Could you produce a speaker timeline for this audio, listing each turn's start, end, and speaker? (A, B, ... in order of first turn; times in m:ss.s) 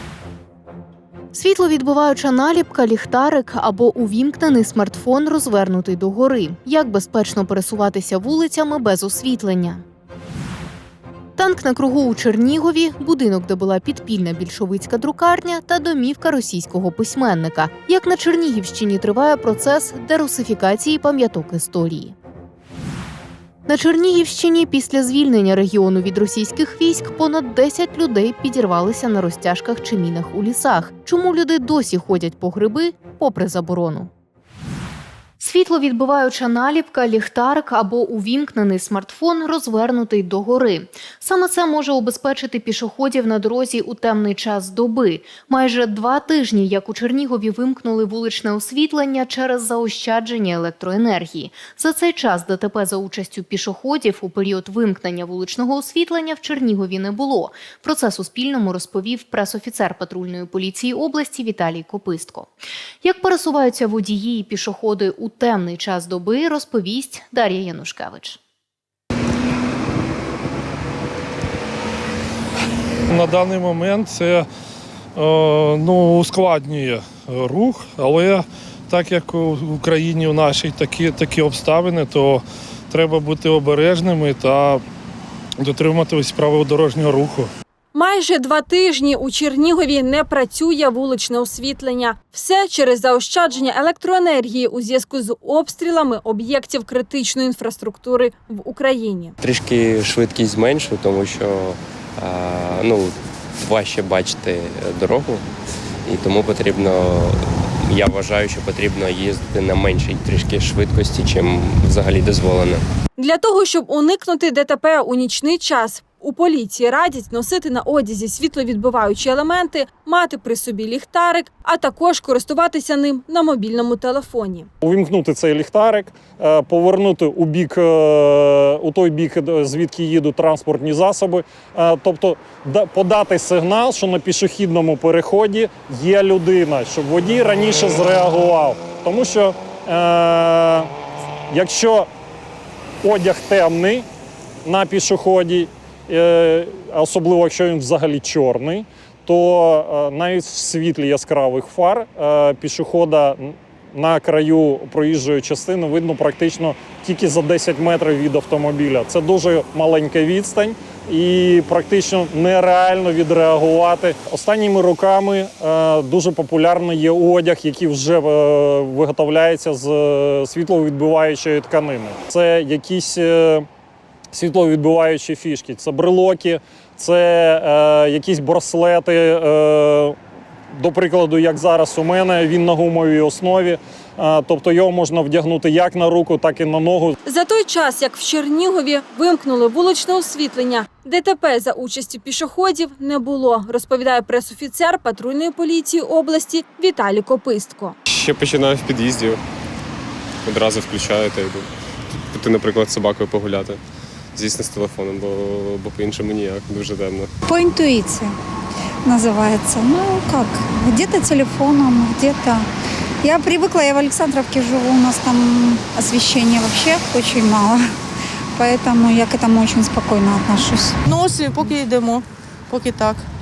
0:01.3-0:09.8 A
0:11.4-0:22.1 A
0:23.7-0:34.1 A
0:35.4-1:08.4 A
1:13.1-1:14.4 B
1:15.2-1:24.8 B
1:25.6-1:27.5 B
1:27.9-1:39.3 C
1:39.4-1:45.4 D
1:46.0-1:52.8 D
1:53.2-2:04.7 C
2:04.8-2:20.9 E
2:21.5-2:22.1 E
2:23.0-2:24.1 E
2:24.6-2:53.7 E
2:54.3-3:00.2 E
3:00.7-3:07.2 E
3:07.2-3:18.0 C
3:18.1-3:19.4 F
3:20.4-3:21.7 F
3:22.3-3:23.8 F
3:24.3-3:27.3 F
3:27.5-3:28.3 G
3:29.0-3:32.6 G
3:33.2-3:37.8 G
3:38.6-3:40.9 G
3:41.0-3:43.2 H